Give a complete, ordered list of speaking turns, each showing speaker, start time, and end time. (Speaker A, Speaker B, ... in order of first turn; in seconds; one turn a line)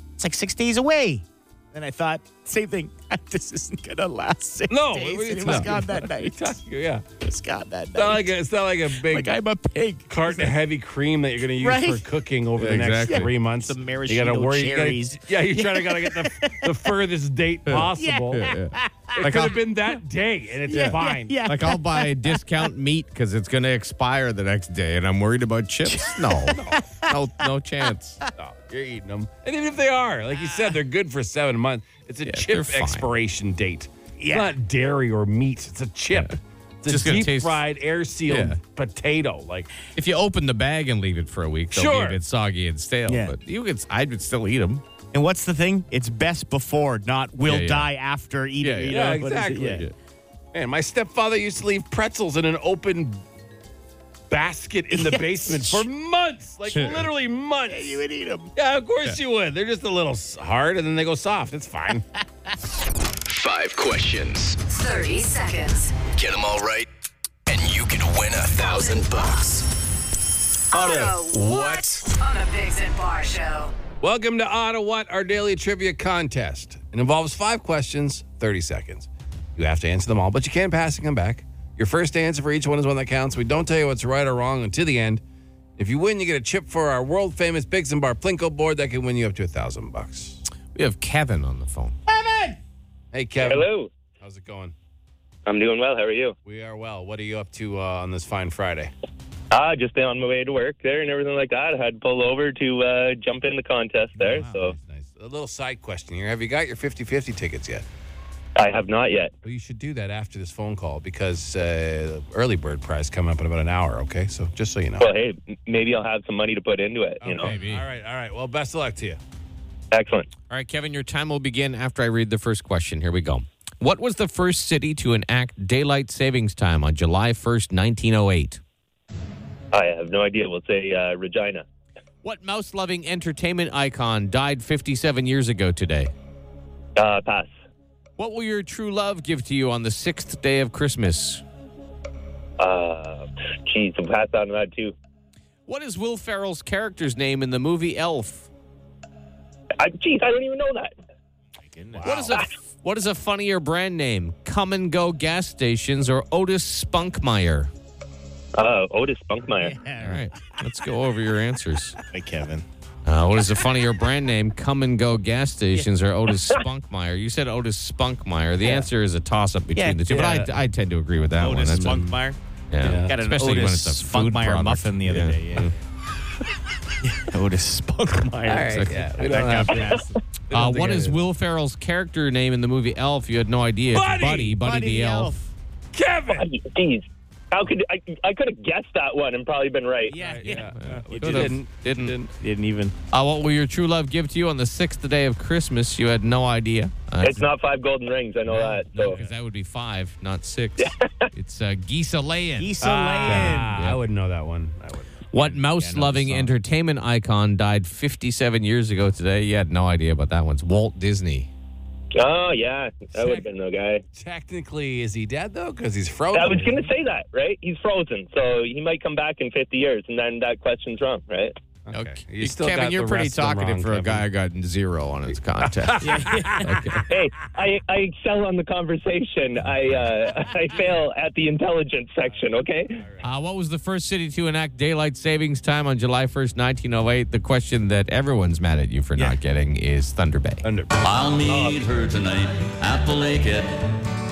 Speaker A: 0.2-6.6
Speaker B: 4.7-7.0
Speaker C: 5.4-5.7
Speaker A: 7.2-8.3
Speaker B: 8.0-9.3
Speaker A: 8.9-10.5
Speaker B: 10.1-18.5
Speaker A: 11.6-12.1
Speaker C: 12.6-13.3
Speaker A: 13.0-16.9
Speaker C: 17.7-19.6
Speaker A: 17.9-19.6
Speaker B: 19.2-21.4
Speaker A: 20.7-22.7
Speaker C: 20.7-28.2
Speaker A: 25.9-27.5
Speaker B: 28.4-39.7
Speaker C: 32.2-33.1
Speaker A: 34.2-34.5
Speaker C: 36.1-37.6
Speaker C: 38.3-38.6
Speaker C: 39.9-44.8
Speaker B: 41.7-42.2
Speaker A: 43.1-43.4
Speaker A: 45.1-49.9
Speaker C: 47.4-47.9
Speaker C: 48.6-49.9
Speaker B: 48.9-49.8
Speaker B: 50.5-53.2
Speaker B: 54.3-58.0
Speaker A: 54.9-55.9
Speaker C: 56.7-57.0
Speaker A: 57.7-58.5
Speaker B: 58.5-62.0
Speaker D: 63.3-64.6
Speaker E: 64.7-66.0
Speaker D: 66.1-66.9
Speaker D: 67.5-69.7
Speaker E: 68.6-69.1
Speaker D: 70.7-72.1
Speaker E: 70.7-73.7
Speaker B: 74.0-85.2
Speaker B: 85.8-90.4
Speaker C: 90.7-92.0
Speaker A: 92.1-92.6
Speaker B: 93.1-94.7
Speaker F: 93.4-93.9
Speaker F: 95.5-96.3
Speaker B: 96.4-98.9
Speaker F: 99.5-104.7
Speaker B: 104.2-107.8
Speaker F: 108.6-109.3
Speaker B: 109.4-115.1
Speaker F: 115.0-117.5
Speaker B: 117.2-119.2
Speaker C: 117.3-117.8
Speaker F: 119.9-120.3
Speaker C: 120.5-128.6
Speaker F: 129.7-131.6
Speaker C: 132.2-136.1
Speaker F: 137.0-137.6
Speaker C: 138.2-141.4
Speaker F: 142.6-144.9
Speaker C: 145.7-148.5
Speaker F: 149.8-150.9
Speaker A: 151.6-152.4
Speaker B: 152.0-152.3
Speaker C: 152.0-157.7
Speaker F: 158.6-159.8
Speaker A: 159.5-160.6
Speaker C: 160.0-162.0
Speaker A: 162.0-162.6
Speaker C: 163.0-172.1
Speaker A: 169.7-170.2
Speaker B: 170.1-170.5
Speaker A: 171.4-172.4
Speaker C: 172.7-175.7
Speaker B: 172.8-173.1
Speaker A: 173.0-175.7
Speaker A: 177.0-180.1
Speaker B: 178.5-181.2
Speaker C: 178.6-179.9
Speaker C: 180.5-185.3
Speaker B: 183.9-184.6
Speaker A: 184.6-185.5
Speaker B: 185.9-186.4
Speaker F: 186.3-190.2
Speaker A: 190.1-191.6
Speaker B: 190.1-192.3
Speaker C: 190.4-192.1
Speaker A: 192.4-192.9
Speaker C: 193.1-197.5
Speaker F: 197.2-199.2
Speaker C: 198.5-204.0
Speaker B: 199.0-199.3
Speaker F: 200.8-201.3
Speaker A: 202.6-203.7
Speaker B: 202.8-205.5
Speaker C: 205.3-211.5
Speaker A: 205.4-206.5
Speaker F: 212.1-214.0
Speaker B: 213.1-213.4
Speaker B: 214.1-216.8
Speaker F: 216.3-221.5
Speaker B: 221.8-224.2
Speaker C: 221.9-227.1
Speaker B: 225.6-227.1
Speaker A: 226.0-226.7
Speaker F: 227.1-233.0
Speaker C: 233.2-240.6
Speaker B: 240.6-241.0
Speaker G: 241.0-243.9
Speaker F: 241.4-241.8